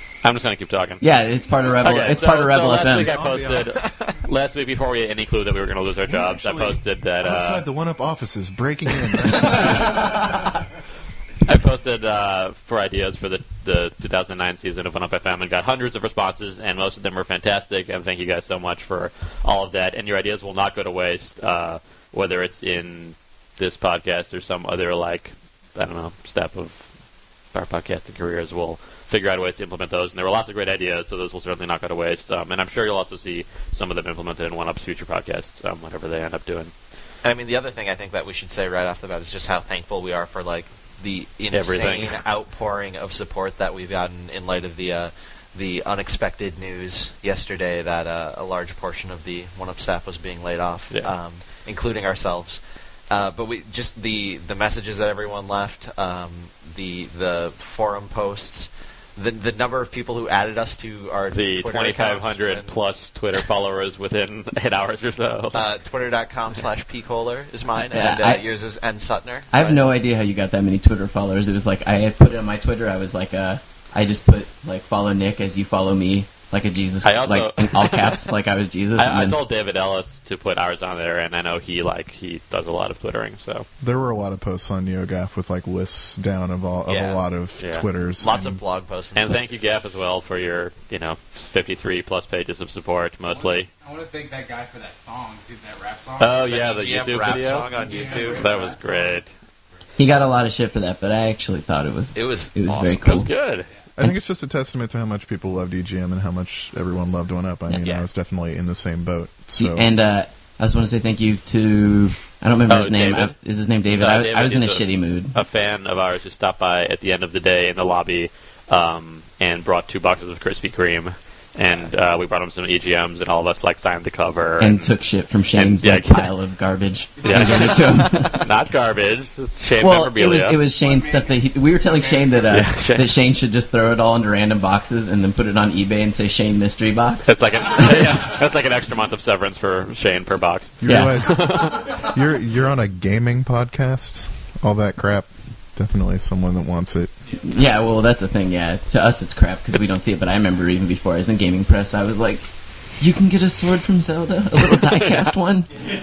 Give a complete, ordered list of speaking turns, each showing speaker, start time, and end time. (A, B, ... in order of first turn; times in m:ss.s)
0:00.2-0:01.0 A
0:01.0-0:03.1 B
0:01.8-0:07.6 A
0:03.0-0:04.0 C
0:06.1-0:10.2 C
0:09.5-0:10.2 A
0:11.5-0:27.0 A
0:27.5-0:36.7 A
0:37.2-1:02.8 D
0:41.5-0:42.2 A
1:01.3-1:05.6 A
1:05.5-1:09.9 D
1:07.9-1:08.4 B
1:09.5-1:19.4 B
1:17.0-1:18.3 A
1:19.0-1:23.7 A
1:23.8-1:28.6 C
1:26.9-1:27.2 D
1:27.6-1:27.9 A
1:28.2-1:29.4 D
1:29.2-1:33.7 A
1:33.3-1:36.7 E
1:36.2-1:39.3 A
1:36.5-1:38.7 D
1:37.3-1:39.6 E
1:40.0-1:43.3 B
1:42.1-1:43.3 D
1:42.9-1:43.7 A
1:44.0-1:49.9 C
1:49.6-1:55.3 B
1:52.7-1:53.4 A
1:53.9-2:06.3 A
2:04.6-2:08.4 B
2:07.2-2:08.0 E
2:07.2-2:10.6 A
2:09.8-2:18.1 B
2:10.8-2:12.7 E
2:12.5-2:13.1 A
2:17.3-2:22.0 A
2:20.8-2:27.1 C
2:20.8-2:21.2 B
2:27.4-2:35.7 B
2:34.9-2:35.2 A